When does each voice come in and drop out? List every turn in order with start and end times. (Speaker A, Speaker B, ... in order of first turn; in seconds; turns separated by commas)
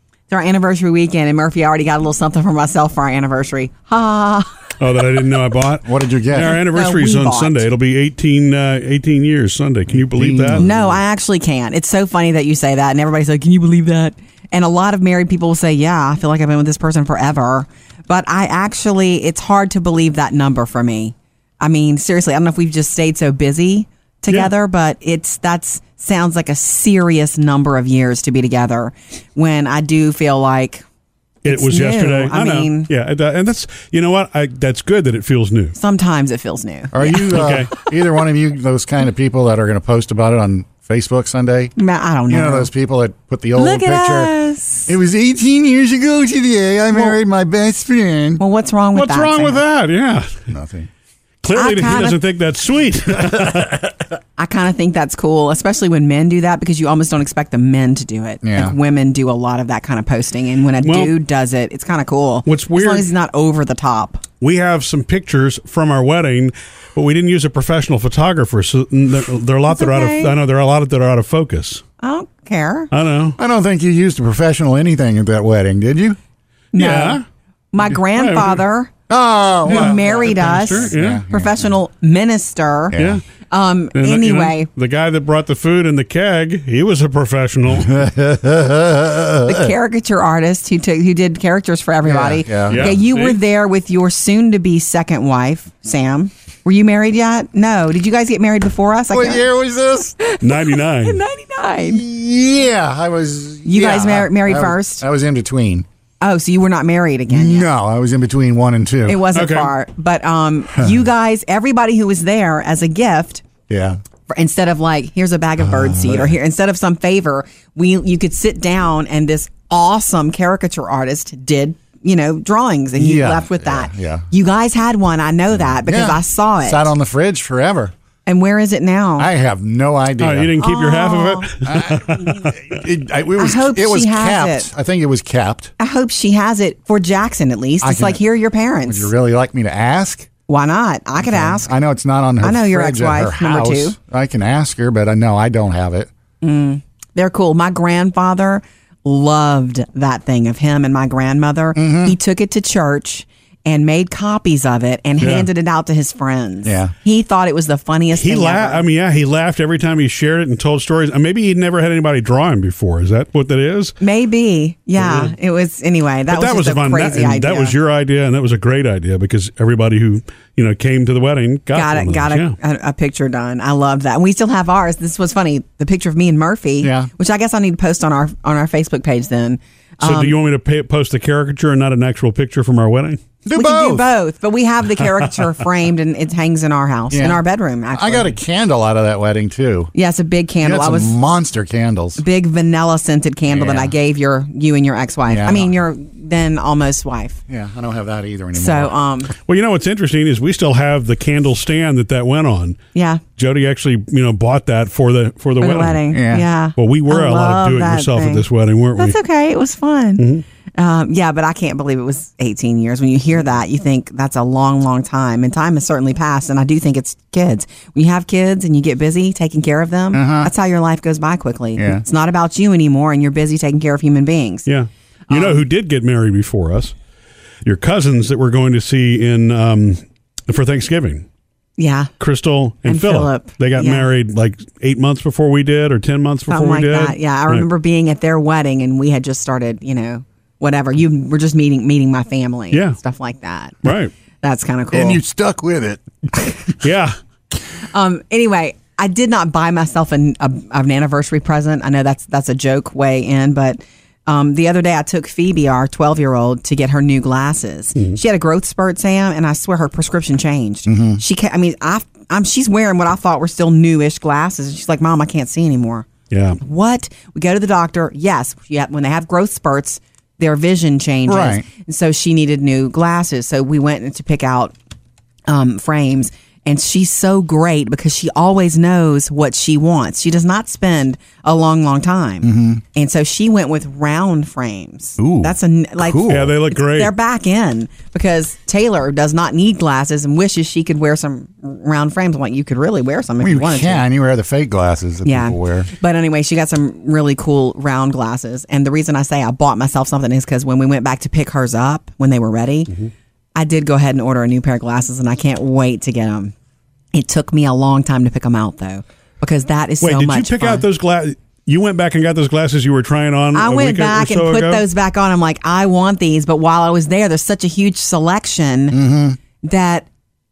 Speaker A: 0.3-4.7, Speaker B: 4.8-10.7, Speaker C: 5.8-6.6, Speaker A: 6.5-7.7, Speaker C: 9.9-11.0, Speaker A: 10.5-30.8, Speaker B: 31.4-35.7, Speaker A: 31.5-32.9, Speaker A: 35.8-37.3, Speaker C: 36.9-41.7, Speaker B: 37.2-37.7, Speaker A: 41.8-42.7, Speaker C: 42.3-44.4, Speaker A: 43.6-44.9, Speaker C: 44.9-48.4, Speaker A: 48.4-49.6, Speaker B: 48.9-50.5, Speaker C: 50.5-50.9, Speaker B: 51.4-54.0, Speaker A: 51.5-52.2, Speaker A: 54.4-64.2, Speaker C: 58.4-58.8, Speaker B: 60.8-61.1, Speaker B: 62.5-63.1, Speaker B: 64.4-71.8, Speaker A: 69.7-70.4, Speaker A: 72.0-72.9, Speaker B: 72.9-73.4, Speaker C: 73.4-76.2, Speaker A: 76.7-77.2, Speaker B: 76.8-77.2, Speaker A: 77.7-78.9, Speaker B: 77.8-78.6, Speaker C: 79.1-81.7, Speaker B: 79.7-81.2, Speaker A: 79.7-84.7, Speaker C: 82.9-83.2, Speaker B: 82.9-83.2, Speaker B: 84.0-88.0, Speaker C: 87.8-89.7, Speaker A: 89.4-99.5, Speaker C: 92.0-93.0, Speaker B: 92.7-93.4, Speaker C: 99.1-100.2, Speaker A: 100.2-102.0, Speaker B: 100.4-101.2, Speaker C: 101.9-105.9, Speaker A: 103.7-105.0, Speaker A: 106.2-107.7, Speaker C: 107.3-109.2, Speaker A: 109.1-113.4, Speaker B: 109.3-109.7, Speaker C: 113.7-114.0, Speaker A: 114.3-126.9, Speaker C: 115.6-116.3, Speaker C: 123.0-124.3, Speaker C: 125.7-127.9, Speaker A: 128.3-129.3, Speaker C: 129.2-130.6, Speaker B: 130.2-132.8, Speaker A: 130.6-131.5, Speaker C: 131.7-135.7, Speaker A: 133.4-134.7, Speaker A: 135.8-139.1, Speaker C: 137.8-138.2, Speaker C: 138.8-140.3, Speaker A: 140.5-141.8, Speaker C: 141.2-146.1, Speaker A: 142.4-144.0, Speaker A: 146.4-158.8, Speaker C: 151.8-152.2, Speaker B: 155.2-155.5, Speaker C: 156.7-156.9, Speaker B: 158.1-163.9, Speaker A: 164.0-167.8, Speaker B: 165.0-165.3, Speaker B: 166.3-172.6, Speaker A: 171.7-180.4, Speaker C: 176.8-177.1, Speaker B: 180.0-183.2, Speaker C: 183.4-184.1, Speaker A: 183.6-188.4, Speaker C: 187.1-187.4, Speaker C: 187.9-189.9, Speaker A: 189.9-191.2, Speaker C: 190.6-192.2, Speaker A: 192.2-197.4, Speaker C: 193.5-193.9, Speaker C: 195.3-195.7, Speaker C: 197.5-198.9, Speaker A: 198.5-199.3, Speaker B: 199.4-202.8, Speaker A: 202.9-203.2, Speaker B: 203.4-206.1, Speaker A: 205.6-208.4, Speaker C: 206.1-206.5, Speaker B: 206.8-209.2, Speaker A: 209.0-210.3, Speaker B: 210.2-210.4, Speaker A: 210.8-224.7, Speaker C: 220.1-220.5, Speaker C: 221.8-222.0, Speaker B: 224.7-226.9, Speaker A: 225.3-225.6, Speaker B: 227.6-231.3, Speaker A: 231.8-232.1, Speaker B: 232.2-237.7, Speaker A: 232.8-234.1, Speaker A: 236.5-243.8, Speaker B: 242.7-243.0, Speaker B: 243.8-244.1, Speaker A: 244.4-245.2, Speaker C: 244.9-246.0, Speaker A: 246.3-246.6, Speaker B: 246.8-247.2, Speaker A: 247.8-274.7, Speaker C: 260.9-261.2, Speaker B: 266.3-266.6, Speaker C: 271.3-271.7, Speaker A: 275.5-294.1, Speaker C: 282.4-282.8, Speaker C: 285.2-286.6, Speaker B: 286.3-287.1, Speaker C: 293.4-295.9, Speaker A: 295.2-302.9, Speaker A: 303.6-306.5, Speaker A: 307.1-310.9, Speaker B: 310.0-314.8, Speaker A: 313.5-319.0, Speaker C: 318.9-319.4, Speaker A: 319.6-320.1